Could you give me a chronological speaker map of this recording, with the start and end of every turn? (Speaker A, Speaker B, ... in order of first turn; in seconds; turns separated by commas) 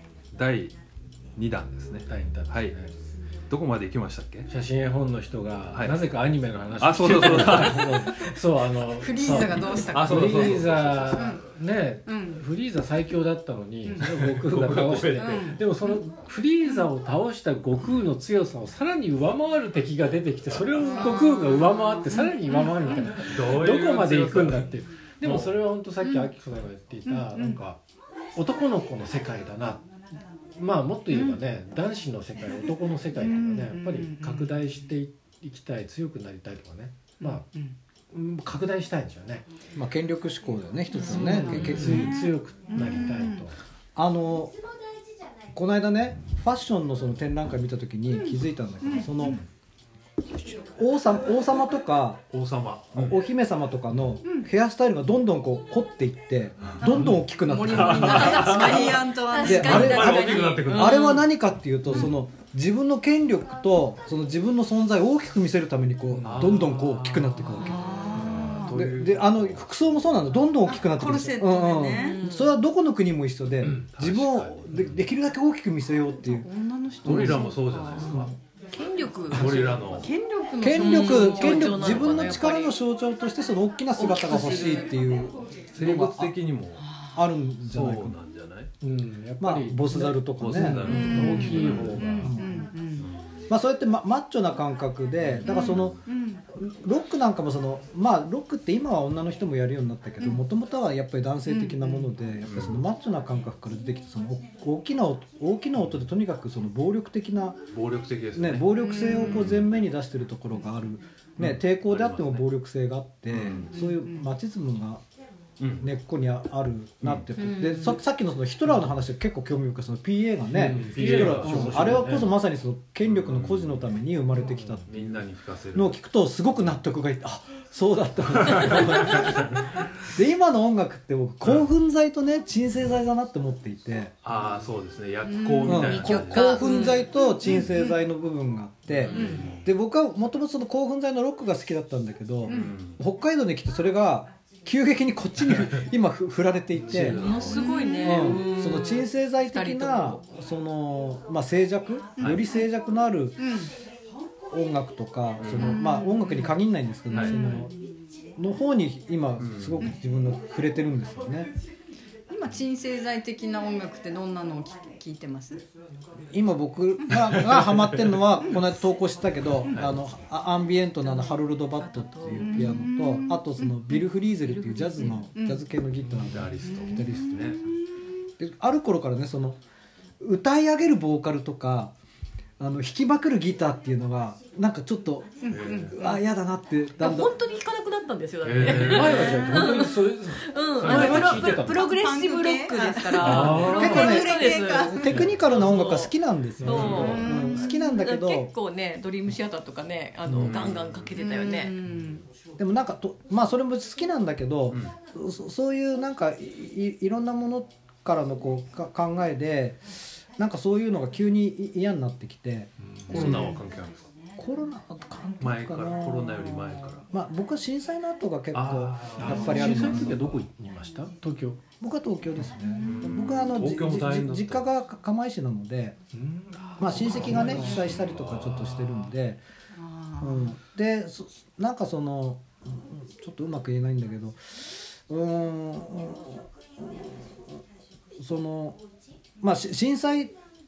Speaker A: 0.3-0.7, Speaker A: 1.4-2.7, Speaker B: 2.1-3.0, Speaker A: 3.5-4.5, Speaker B: 4.5-27.8, Speaker A: 6.8-8.1, Speaker C: 9.0-11.4, Speaker A: 9.3-11.3, Speaker C: 12.1-12.4, Speaker C: 13.8-14.1, Speaker A: 14.0-15.6, Speaker C: 15.1-16.0, Speaker A: 20.6-21.0, Speaker C: 20.8-23.1, Speaker A: 23.1-24.7, Speaker A: 25.2-25.5, Speaker C: 26.0-26.3, Speaker C: 27.1-27.6, Speaker B: 28.3-29.9, Speaker B: 30.6-37.5, Speaker C: 31.1-31.4, Speaker C: 33.1-34.5, Speaker C: 37.2-37.8, Speaker B: 38.1-39.5, Speaker D: 39.7-42.1, Speaker E: 40.9-41.3, Speaker C: 40.9-43.5, Speaker B: 41.1-43.6, Speaker A: 41.5-41.9, Speaker D: 44.0-44.5, Speaker D: 45.5-49.4, Speaker C: 48.2-49.4, Speaker D: 50.7-52.2, Speaker A: 52.3-53.2, Speaker D: 52.9-58.6, Speaker A: 56.6-61.3, Speaker C: 56.8-60.1, Speaker E: 57.9-61.3, Speaker D: 59.4-76.5, Speaker A: 66.2-70.3, Speaker C: 67.6-68.8, Speaker B: 68.2-68.5, Speaker C: 70.6-72.2, Speaker E: 71.9-72.6, Speaker A: 73.6-75.0, Speaker C: 76.1-78.3, Speaker D: 77.0-77.5, Speaker A: 77.0-78.3, Speaker E: 78.7-80.1, Speaker D: 79.3-79.7, Speaker A: 79.3-80.1, Speaker C: 79.4-82.3, Speaker D: 80.6-86.3, Speaker E: 80.7-82.8, Speaker E: 84.0-85.0, Speaker C: 84.3-84.8, Speaker A: 85.7-86.9, Speaker C: 86.8-87.2, Speaker D: 87.1-88.2, Speaker A: 87.6-88.7, Speaker B: 88.8-92.3, Speaker D: 89.4-91.3, Speaker A: 90.4-92.4, Speaker C: 90.8-93.1, Speaker D: 92.1-92.6, Speaker A: 92.9-93.5, Speaker D: 93.5-96.0, Speaker A: 95.2-96.0, Speaker C: 95.4-96.4, Speaker D: 96.5-107.6, Speaker C: 100.2-100.4, Speaker C: 101.5-102.1, Speaker A: 102.4-102.8, Speaker A: 105.8-106.0, Speaker A: 107.7-109.7, Speaker D: 108.3-115.0, Speaker C: 108.8-109.5, Speaker A: 111.4-112.5, Speaker A: 113.3-113.7, Speaker C: 113.7-114.3, Speaker A: 115.6-115.9, Speaker D: 115.8-125.2, Speaker A: 117.0-117.3, Speaker E: 117.4-118.0, Speaker B: 120.5-122.3, Speaker A: 120.7-122.3, Speaker A: 123.0-123.9, Speaker A: 124.8-126.0, Speaker D: 125.7-134.1, Speaker A: 128.3-129.6, Speaker A: 134.2-136.7, Speaker C: 135.2-136.0, Speaker D: 135.7-147.2, Speaker E: 135.7-137.1, Speaker C: 136.6-138.0, Speaker A: 138.9-139.7, Speaker C: 139.1-139.5, Speaker A: 142.4-143.0, Speaker C: 142.4-142.8, Speaker A: 145.4-145.8, Speaker A: 146.7-147.7, Speaker E: 147.0-150.2, Speaker C: 147.2-148.3, Speaker D: 148.0-153.5, Speaker C: 152.2-152.7, Speaker A: 152.2-152.4, Speaker C: 153.4-153.7, Speaker D: 154.5-157.7, Speaker A: 155.4-155.8, Speaker C: 155.5-156.6, Speaker C: 157.1-157.9, Speaker A: 157.1-157.4, Speaker D: 158.4-161.5, Speaker A: 159.4-159.9, Speaker C: 162.3-165.7, Speaker D: 166.3-177.5, Speaker A: 167.3-168.2, Speaker A: 169.7-170.0, Speaker E: 171.0-172.8, Speaker C: 172.4-174.1, Speaker E: 174.4-175.3, Speaker C: 175.0-175.7, Speaker B: 176.0-176.5, Speaker A: 176.1-177.6, Speaker C: 176.6-177.8, Speaker D: 178.4-179.6, Speaker D: 180.2-181.9, Speaker D: 182.6-187.3, Speaker C: 185.4-186.0, Speaker A: 185.5-185.9, Speaker E: 187.0-201.8, Speaker A: 188.4-189.7, Speaker B: 188.6-191.8, Speaker C: 189.0-189.5, Speaker A: 190.8-191.6, Speaker C: 191.6-195.2, Speaker B: 193.2-194.1, Speaker A: 193.2-193.6, Speaker D: 193.8-198.5, Speaker B: 195.1-195.3, Speaker B: 196.6-197.1, Speaker A: 196.6-197.2, Speaker C: 196.9-198.0, Speaker D: 200.2-200.6, Speaker A: 200.3-201.1, Speaker C: 201.1-202.3, Speaker D: 202.6-213.6, Speaker A: 204.7-204.9, Speaker B: 212.8-213.4, Speaker A: 213.1-214.1, Speaker D: 214.4-220.4, Speaker A: 215.4-217.0, Speaker A: 218.5-220.3, Speaker B: 219.2-221.6, Speaker D: 221.8-226.0, Speaker C: 222.6-222.9, Speaker A: 222.8-224.7, Speaker B: 226.1-227.7, Speaker C: 226.8-227.9, Speaker D: 226.8-229.4, Speaker A: 227.0-229.1, Speaker C: 229.8-230.5, Speaker D: 230.2-237.2, Speaker D: 238.2-238.8, Speaker D: 239.4-240.3